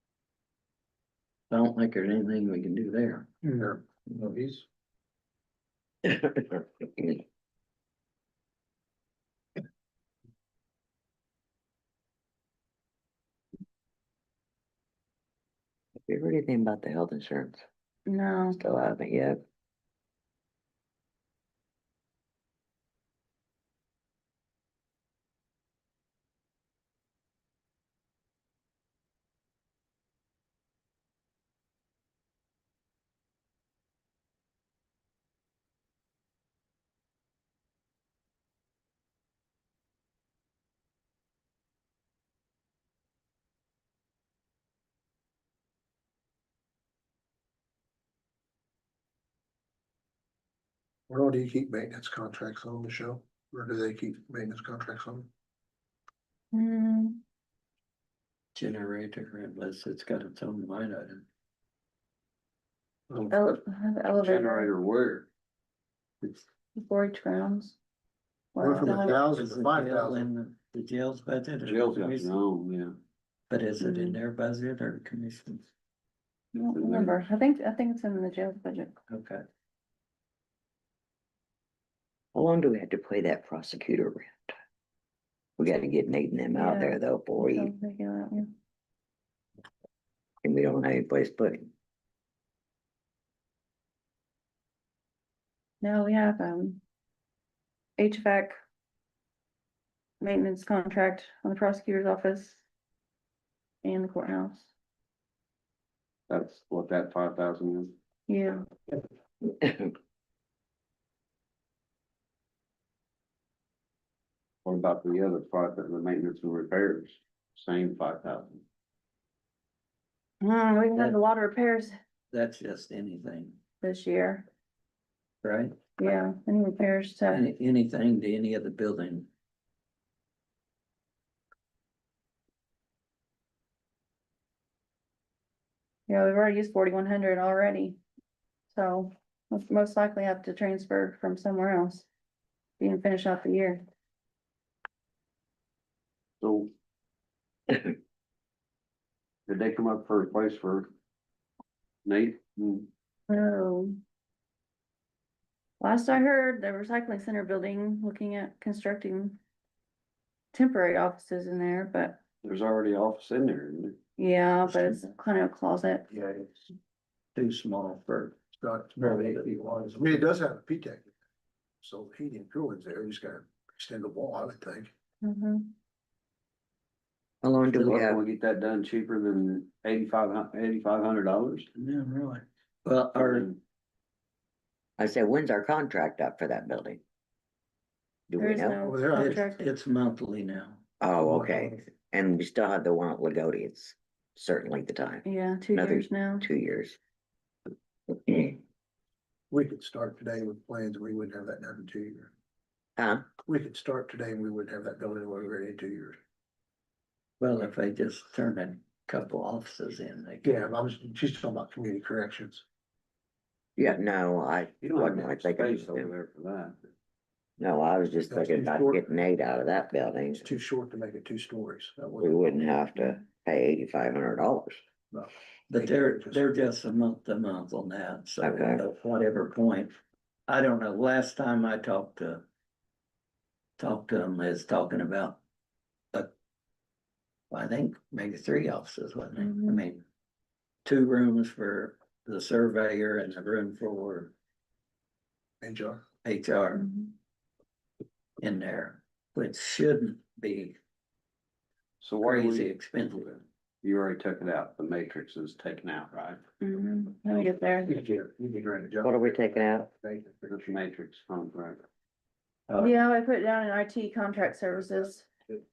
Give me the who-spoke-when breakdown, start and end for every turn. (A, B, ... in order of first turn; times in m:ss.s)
0:01.5-0:03.3 A
0:03.4-0:04.6 B
0:06.0-0:07.2 C
0:16.1-0:17.6 C
0:18.1-0:18.6 D
0:18.6-0:19.4 C
0:51.1-0:55.3 B
0:56.5-0:57.2 D
0:58.5-1:01.2 A
1:03.3-1:04.7 D
1:04.2-1:05.3 E
1:06.7-1:07.8 D
1:08.5-1:09.2 D
1:08.6-1:10.3 B
1:08.8-1:12.3 A
1:11.6-1:12.9 E
1:13.5-1:15.7 A
1:13.8-1:14.2 D
1:16.5-1:19.0 D
1:16.7-1:17.2 E
1:19.1-1:19.4 A
1:22.3-1:24.5 C
1:25.6-1:27.7 C
1:26.5-1:28.5 D
1:30.4-1:31.7 C
1:35.8-1:36.8 D
1:38.0-1:38.6 D
1:40.2-1:42.6 D
1:43.8-1:44.7 D
1:46.3-1:47.9 E
1:48.3-1:48.6 D
1:49.4-1:49.9 C
1:54.6-1:58.6 E
2:00.4-2:01.9 D
2:02.3-2:03.6 A
2:03.8-2:04.5 D
2:05.4-2:05.8 A
2:06.0-2:07.4 D
2:07.3-2:09.3 A
2:16.1-2:18.0 D
2:18.7-2:22.1 D
2:22.8-2:23.8 D
2:26.4-2:26.7 E
2:29.5-2:30.9 E
2:32.0-2:32.9 E
2:33.3-2:34.0 D
2:35.8-2:39.4 D
2:40.5-2:42.2 D
2:42.4-2:44.0 E
2:44.2-2:46.1 D
2:46.1-2:46.6 B
2:47.3-2:48.4 A
2:48.6-2:51.1 B
2:49.0-2:50.2 A
2:51.8-2:54.9 B
2:55.2-2:55.7 D
2:57.4-2:58.2 C
2:57.6-2:58.0 A
2:57.8-3:01.7 E
3:01.7-3:03.5 A
3:03.2-3:03.6 E
3:05.0-3:07.0 C
3:08.3-3:08.9 C
3:08.4-3:09.6 D
3:08.8-3:09.3 B
3:09.1-3:10.8 A
3:11.0-3:17.0 C
3:15.2-3:16.5 D
3:18.3-3:18.5 C
3:19.5-3:22.3 B
3:23.0-3:23.3 C
3:23.4-3:26.2 B
3:27.4-3:30.7 A
3:30.4-3:32.6 B
3:33.8-3:36.1 C
3:34.8-3:36.8 E
3:37.6-3:40.5 C
3:38.2-3:39.2 B
3:40.4-3:42.5 B
3:42.2-3:44.8 C
3:45.1-3:46.4 B
3:45.7-3:49.9 A
3:48.4-3:48.8 C
3:50.5-3:52.4 A
3:53.8-3:55.4 A
3:57.5-4:00.0 A
3:59.4-3:59.8 D
4:00.8-4:04.3 A
4:05.6-4:06.0 B
4:06.2-4:06.8 A
4:06.7-4:07.1 D
4:08.4-4:10.8 A
4:12.0-4:12.7 E
4:12.2-4:13.4 A
4:13.8-4:16.4 E
4:16.6-4:17.9 D
4:17.8-4:20.6 B
4:19.0-4:19.9 C
4:20.5-4:21.8 E
4:22.7-4:22.9 A
4:22.8-4:25.3 D